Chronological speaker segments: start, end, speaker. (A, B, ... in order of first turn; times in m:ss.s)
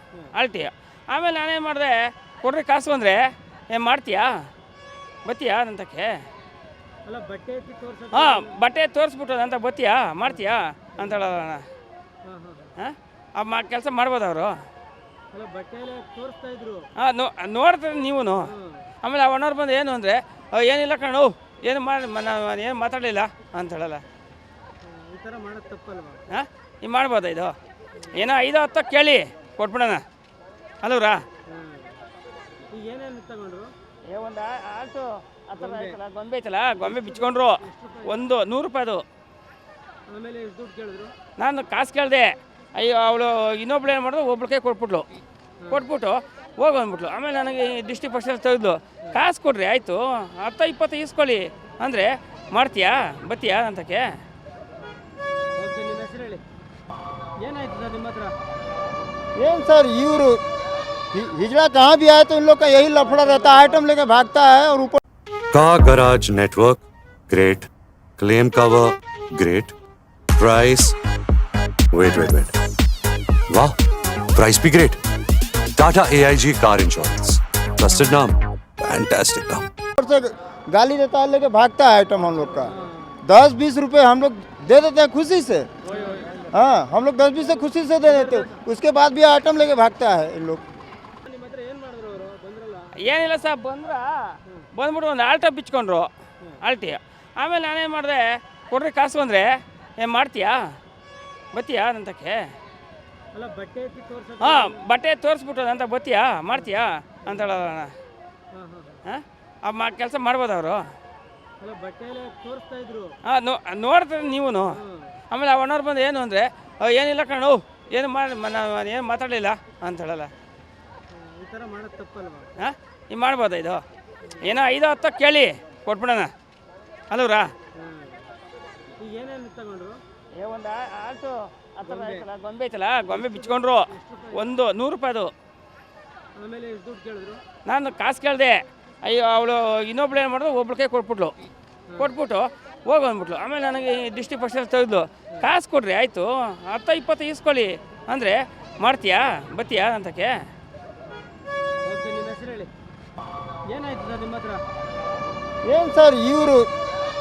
0:00.3-0:03.2 A
0:03.7-0:04.3 A
0:05.2-0:06.1 A
0:07.0-0:08.6 B
0:08.1-0:11.6 A
0:12.2-0:12.8 B
0:12.8-0:14.5 A
0:15.3-0:16.8 B
0:17.0-0:18.4 A
0:18.4-0:18.8 B
0:19.0-0:24.0 A
0:24.8-0:26.2 B
0:26.3-0:27.5 A
0:28.2-0:30.0 A
0:30.8-0:31.2 A
0:31.5-0:32.0 B
0:32.7-0:33.7 B
0:34.1-0:39.0 A
0:35.6-0:36.0 B
0:36.8-0:38.2 B
0:40.1-0:41.1 B
0:41.4-0:45.1 A
0:45.7-0:54.0 A
0:55.6-0:56.4 B
0:57.4-0:58.3 B
0:59.4-1:00.4 C
1:01.1-1:05.0 C
1:03.2-1:03.8 B
1:05.5-1:09.7 D
1:10.4-1:11.0 D
1:11.9-1:12.5 D
1:13.5-1:13.8 D
1:14.3-1:15.0 D
1:15.8-1:19.7 D
1:20.0-1:25.7 C
1:22.7-1:23.2 B
1:25.9-1:26.3 B
1:26.5-1:30.6 C
1:28.1-1:28.6 B
1:31.2-1:33.0 B
1:33.0-1:36.1 A
1:36.6-1:40.6 A
1:41.5-1:42.4 A
1:43.3-1:44.8 B
1:44.4-1:47.9 A
1:47.3-1:47.6 B
1:48.5-1:49.0 B
1:49.1-1:50.8 A
1:51.6-1:53.2 B
1:53.3-1:54.8 A
1:54.7-1:55.1 B
1:55.3-2:00.3 A
2:01.1-2:02.5 B
2:02.6-2:03.8 A
2:04.4-2:06.3 A
2:07.1-2:07.5 A
2:07.8-2:08.3 B
2:09.0-2:10.0 B
2:10.4-2:15.3 A
2:11.9-2:12.2 B
2:13.1-2:14.5 B
2:16.4-2:17.4 B
2:17.6-2:21.3 A
2:22.0-2:30.3 A
2:31.8-2:32.7 B
2:33.7-2:34.6 B
2:35.6-2:36.7 C